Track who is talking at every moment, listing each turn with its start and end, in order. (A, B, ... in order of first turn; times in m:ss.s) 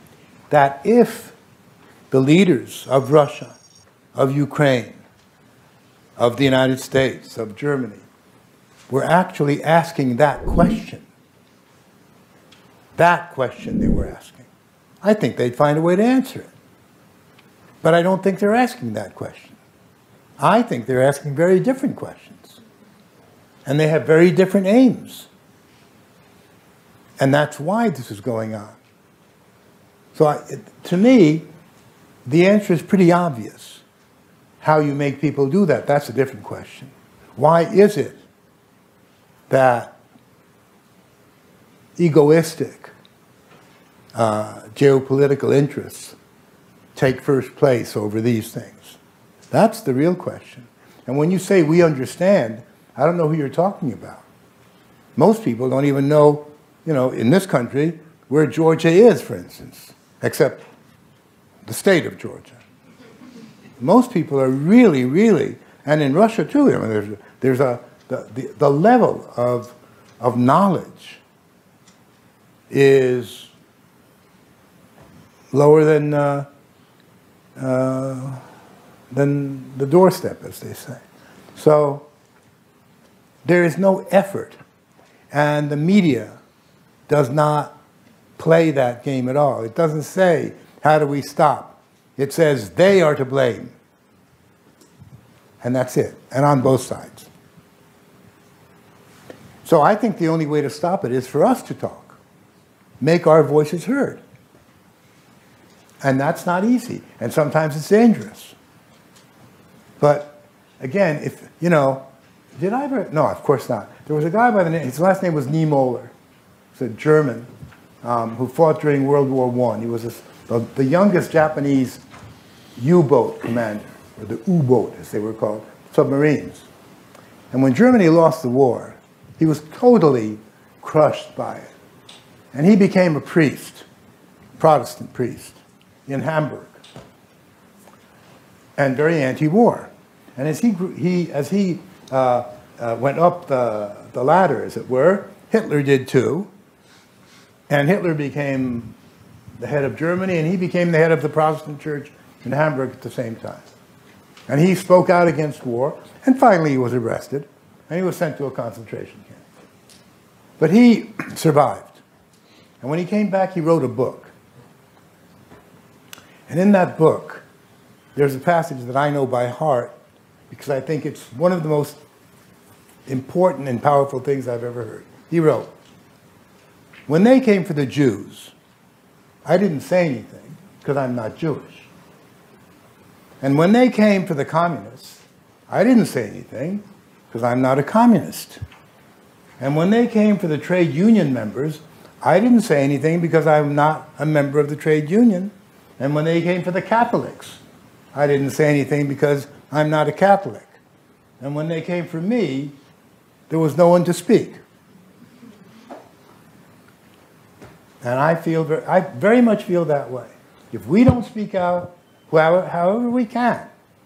0:00.5-0:01.3 A
0:02.1-0:03.6 A
0:04.1-0:05.0 A
0:06.2-0:08.0 A
0:08.9-0:11.0 A
0:13.0-0:14.5 A
0:15.0-0:16.5 A
0:17.8-0:19.6 A
0:20.4-0:22.6 A
0:23.6-0:25.3 A
0:27.2-0:28.8 A
0:30.1-0:31.5 A
0:32.2-0:33.8 A
0:34.6-0:38.2 A
0:39.5-0:40.0 A
0:42.0-0:42.9 A
0:44.1-0:46.2 A
0:46.9-0:49.0 A
0:49.5-0:54.2 A
0:55.2-1:00.6 A
1:01.6-1:02.6 A
1:03.8-1:11.2 A
1:12.7-1:13.5 A
1:15.5-1:16.5 A
1:17.6-1:18.4 A
1:19.1-1:21.0 A
1:21.5-1:22.1 A
1:23.4-1:24.6 A
1:25.3-1:26.4 A
1:27.1-1:27.7 A
1:28.4-1:33.7 A
1:35.6-1:37.3 A
1:39.6-1:42.2 A
1:43.0-1:44.2 A
1:46.0-1:48.6 A
1:50.0-1:52.0 A
1:52.6-1:56.1 A
1:56.7-1:57.5 A
1:58.0-2:02.0 A
2:02.8-2:06.7 A
2:07.5-2:11.7 A
2:12.5-2:13.8 A
2:14.6-2:16.8 A
2:18.8-2:26.5 A
2:27.7-2:29.0 A
2:29.6-2:33.7 A
2:34.5-2:39.4 A
2:40.6-2:42.0 A
2:42.8-2:44.3 A
2:46.5-2:47.4 A
2:48.1-2:49.9 A
2:50.5-2:52.0 A
2:53.1-2:55.7 A
2:57.1-2:58.5 A
2:59.4-3:01.9 A
3:03.4-3:08.6 A
3:09.6-3:17.6 A
3:18.1-3:20.8 A
3:21.4-3:22.7 A
3:23.5-3:24.6 A
3:28.0-3:33.7 A